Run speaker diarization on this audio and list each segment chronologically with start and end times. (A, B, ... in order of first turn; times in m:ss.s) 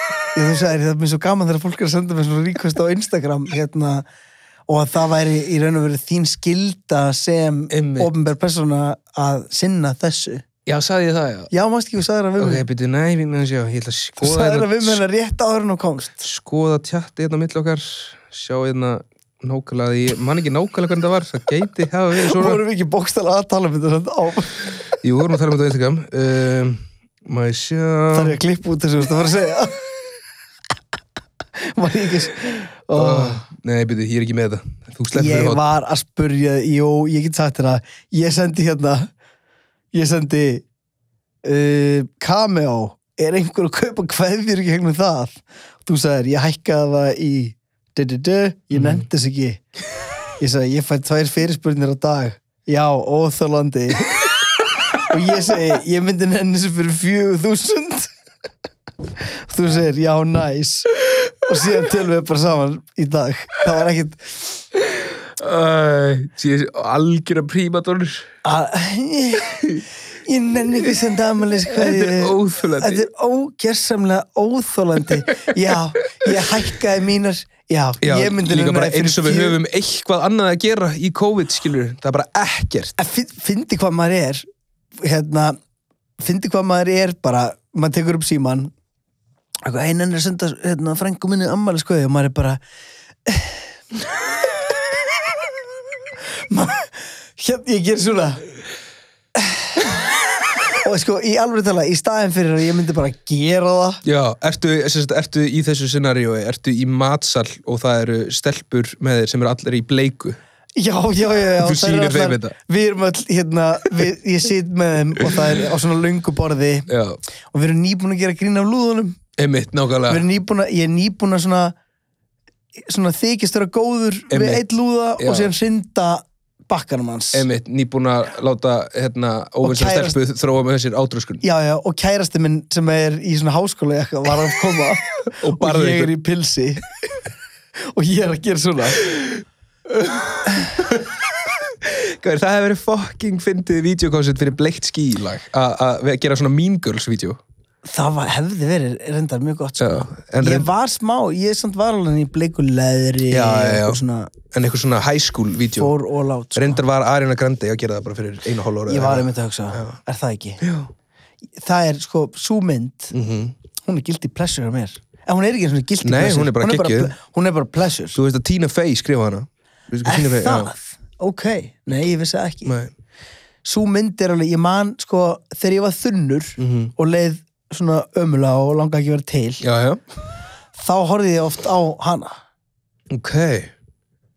0:00.3-0:04.0 A
0:04.7-0:10.4 A
0:07.7-0:08.1 B
0:10.6-0:11.5 B
0:11.5-0:12.6 A
0:12.4-0:15.0 B
0:14.2-0:16.2 A
0:16.2-0:22.6 B
0:22.2-0:24.8 A
0:25.0-0:28.4 B
0:28.1-0:29.9 A
0:31.6-0:33.4 A
0:32.9-0:35.6 B
0:35.1-0:39.1 A
0:39.9-0:40.6 A
0:41.4-0:49.6 A
0:48.7-0:49.0 B
0:50.4-0:54.2 A
0:55.0-0:58.1 A
0:59.4-1:00.9 A
1:01.4-1:04.6 A
1:04.9-1:08.3 B
1:08.4-1:09.6 A
1:10.2-1:19.6 A
1:11.7-1:13.0 B
1:18.0-1:23.0 B
1:23.0-1:24.4 A
1:25.0-1:25.6 A
1:26.2-1:28.7 A
1:29.6-1:32.6 A
1:33.2-1:33.6 A
1:36.5-1:38.4 A
1:39.4-1:39.9 A
1:40.8-1:44.0 A
1:44.0-1:50.4 B
1:50.8-1:56.9 A
1:51.6-1:52.6 B
1:56.9-1:57.2 B
1:57.5-1:59.2 A
1:59.4-2:00.2 B
2:00.1-2:01.7 A
2:02.8-2:07.5 A
2:04.3-2:04.6 B
2:05.2-2:05.5 B
2:07.3-2:11.4 B
2:09.6-2:10.2 A
2:11.4-2:16.8 A
2:15.4-2:16.1 B
2:17.9-2:19.0 A
2:20.0-2:21.1 B
2:21.7-2:27.4 B
2:27.8-2:34.3 A
2:29.8-2:30.7 B
2:33.3-2:35.9 B
2:35.8-2:36.8 A
2:36.5-2:40.0 B
2:38.9-2:40.6 A
2:40.6-2:40.9 B
2:41.6-2:43.1 A
2:43.1-2:43.5 B
2:43.8-2:48.2 A
2:46.0-2:47.1 B
2:48.1-2:50.7 B
2:50.0-2:52.7 A
2:52.6-2:52.9 B
2:53.6-2:59.6 A
2:56.6-2:56.9 B
2:59.6-3:00.0 B
3:00.8-3:02.4 A
3:03.1-3:03.7 B